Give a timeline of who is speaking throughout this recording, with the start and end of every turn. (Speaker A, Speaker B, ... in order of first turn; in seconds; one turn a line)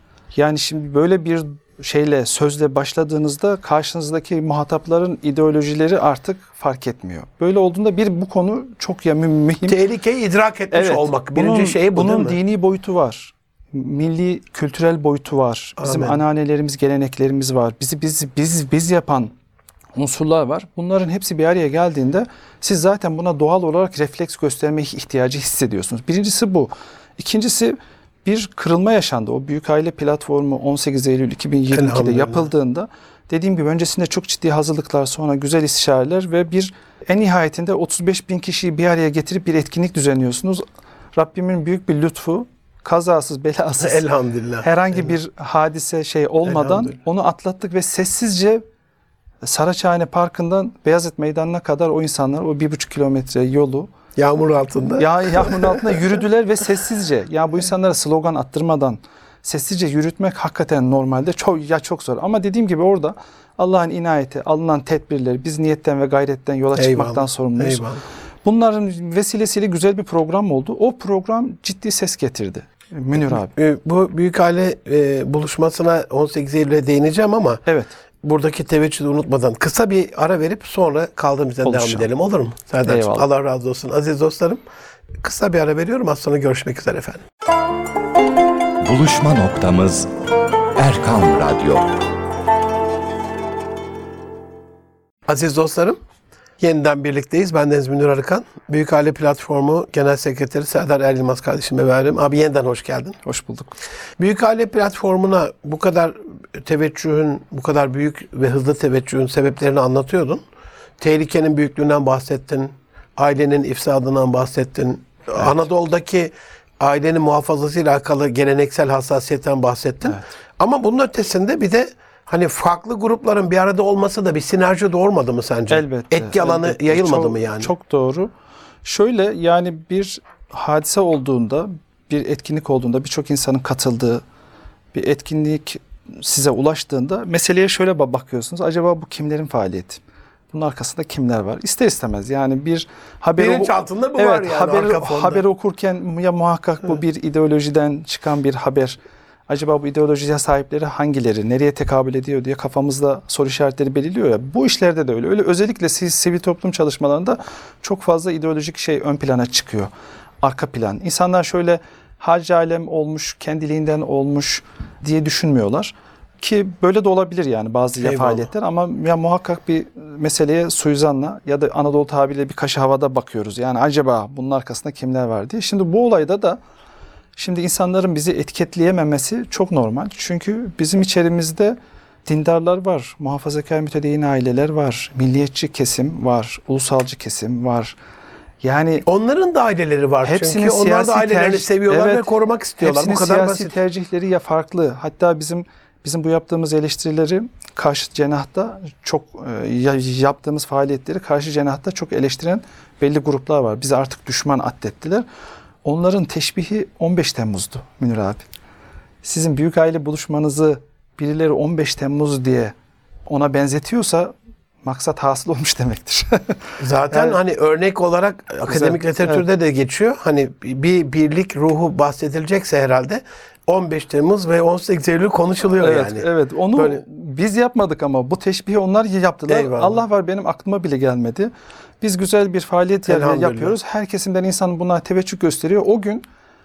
Speaker A: 0.3-9.8
Speaker B: 9.6-12.4
Speaker A: 10.7-19.3
Speaker B: 15.8-16.2
Speaker A: 19.9-40.6
Speaker B: 31.7-32.5
Speaker A: 41.1-44.1
Speaker B: 43.8-45.0
Speaker A: 44.6-48.6
Speaker B: 46.4-46.9
Speaker A: 49.4-53.9
Speaker B: 54.1-55.9
Speaker A: 55.0-67.9
Speaker B: 66.7-68.0
Speaker A: 68.4-73.5
Speaker B: 73.2-77.6
Speaker A: 77.7-77.9
Speaker B: 78.2-84.6
Speaker A: 81.6-82.1
Speaker A: 82.8-83.2
Speaker B: 85.2-87.2
Speaker C: 88.8-90.1
Speaker C: 90.8-91.9
Speaker B: 95.3-96.0
Speaker B: 96.6-103.2
Speaker A: 103.2-103.8
Speaker B: 104.2-110.4
Speaker B: 111.0-127.7
Speaker A: 125.7-128.3
Speaker A: 128.8-134.2
Speaker A: 134.9-140.0
Speaker A: 140.5-159.9
Speaker B: 143.4-145.4
Speaker A: 160.4-176.6
Speaker B: 168.0-168.5
Speaker A: 177.3-188.0
Speaker A: 188.6-189.1
Speaker B: 189.1-193.7
Speaker A: 190.2-192.3
Speaker A: 192.8-205.2
Speaker A: 205.8-208.4
Speaker A: 209.2-212.7
Speaker A: 213.3-217.4
Speaker B: 216.8-227.0
Speaker A: 218.7-219.4
Speaker A: 225.8-236.2
Speaker B: 229.5-230.0
Speaker B: 233.1-233.8